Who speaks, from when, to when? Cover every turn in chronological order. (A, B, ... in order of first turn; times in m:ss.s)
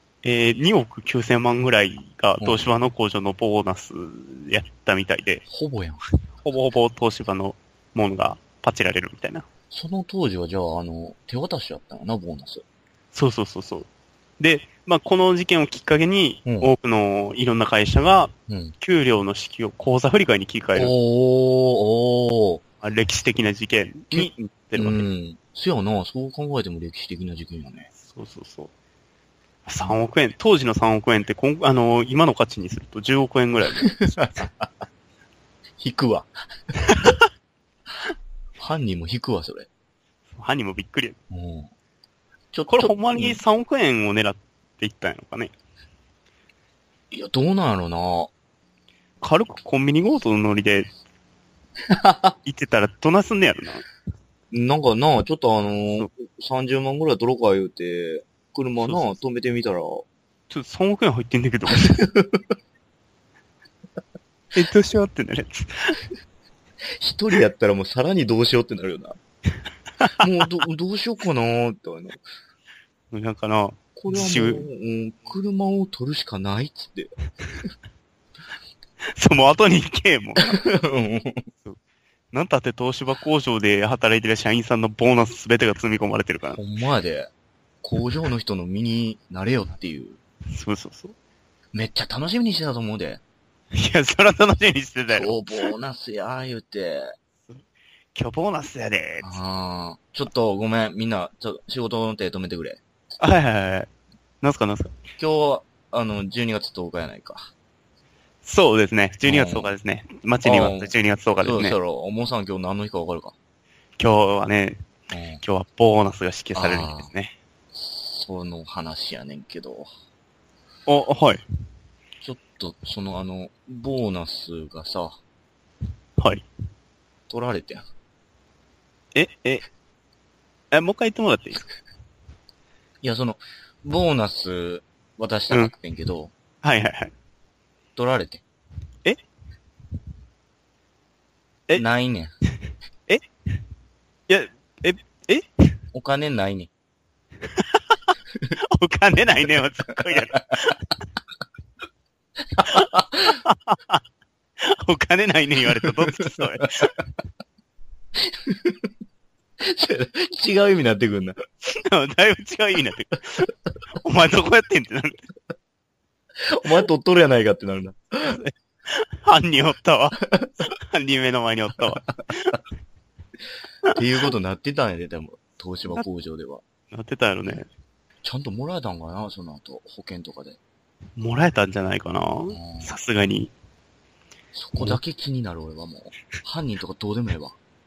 0:00.2-0:05.4 A
0:02.4-0:02.7 B
0:05.5-0:06.0 B
0:06.4-0:09.4 A
0:09.7-0:12.6 B
0:13.1-0:13.9 A
0:14.4-0:20.9 A
0:16.5-0:16.7 B
0:18.5-0:18.7 B
0:20.8-0:22.6 B
0:22.8-0:25.1 A
0:24.1-0:27.9 B
0:28.0-0:28.7 A
0:29.7-0:34.2 A
0:33.8-0:34.7 B
0:35.8-0:36.3 B
0:36.9-0:37.2 A
0:38.6-0:39.7 B
0:40.4-0:41.2 A
0:41.3-0:41.7 B
0:42.5-0:43.4 B
0:42.7-0:45.5 A
0:47.1-0:48.3 B
0:49.2-0:50.9 A
0:51.9-0:52.3 B
0:52.4-0:53.8 A
0:54.5-1:00.1 B
0:58.8-0:59.1 A
1:00.5-1:02.1 A
1:01.8-1:02.4 B
1:04.5-1:06.0 A
1:07.0-1:09.2 B
1:10.2-1:12.2 B
1:13.1-1:14.7 A
1:14.0-1:17.1 B
1:19.1-1:20.5 A
1:20.4-1:21.5 B
1:22.3-1:26.6 A
1:26.5-1:27.3 B
1:27.8-1:30.2 B
1:30.5-1:31.2 A
1:31.7-1:33.2 B
1:33.7-1:35.7 A
1:35.1-1:37.1 B
1:38.2-1:39.4 A
1:39.2-1:42.8 B
1:43.2-1:43.9 A
1:44.4-1:44.9 A
1:45.2-1:47.5 B
1:48.4-1:51.8 A
1:49.3-1:49.7 B
1:50.4-1:53.4 B
1:54.0-1:54.8 A
1:55.1-1:55.4 B
1:55.4-1:57.4 A
1:56.6-1:57.1 B
1:57.7-1:59.9 B
2:00.9-2:01.4 A
2:02.2-2:05.2 B
2:06.2-2:06.5 A
2:07.3-2:07.8 B
2:09.2-2:09.6 A
2:10.7-2:11.7 A
2:13.0-2:16.3 B
2:16.6-2:17.1 A
2:18.0-2:18.4 B
2:21.7-2:22.3 B
2:24.3-2:25.5 A
2:25.9-2:26.7 B
2:28.6-2:30.8 A
2:32.6-2:33.4 B
2:32.6-2:34.0 A
2:34.6-2:36.9 A
2:38.2-2:38.9 B
2:39.6-2:41.4 B
2:41.7-2:45.3 A
2:46.4-2:48.4 B
2:48.3-2:52.6 A
2:53.9-2:56.6 B
2:56.9-2:57.7 A
2:58.2-3:00.6 B
3:01.2-3:03.5 A
3:02.5-3:02.9 B
3:04.5-3:07.6 B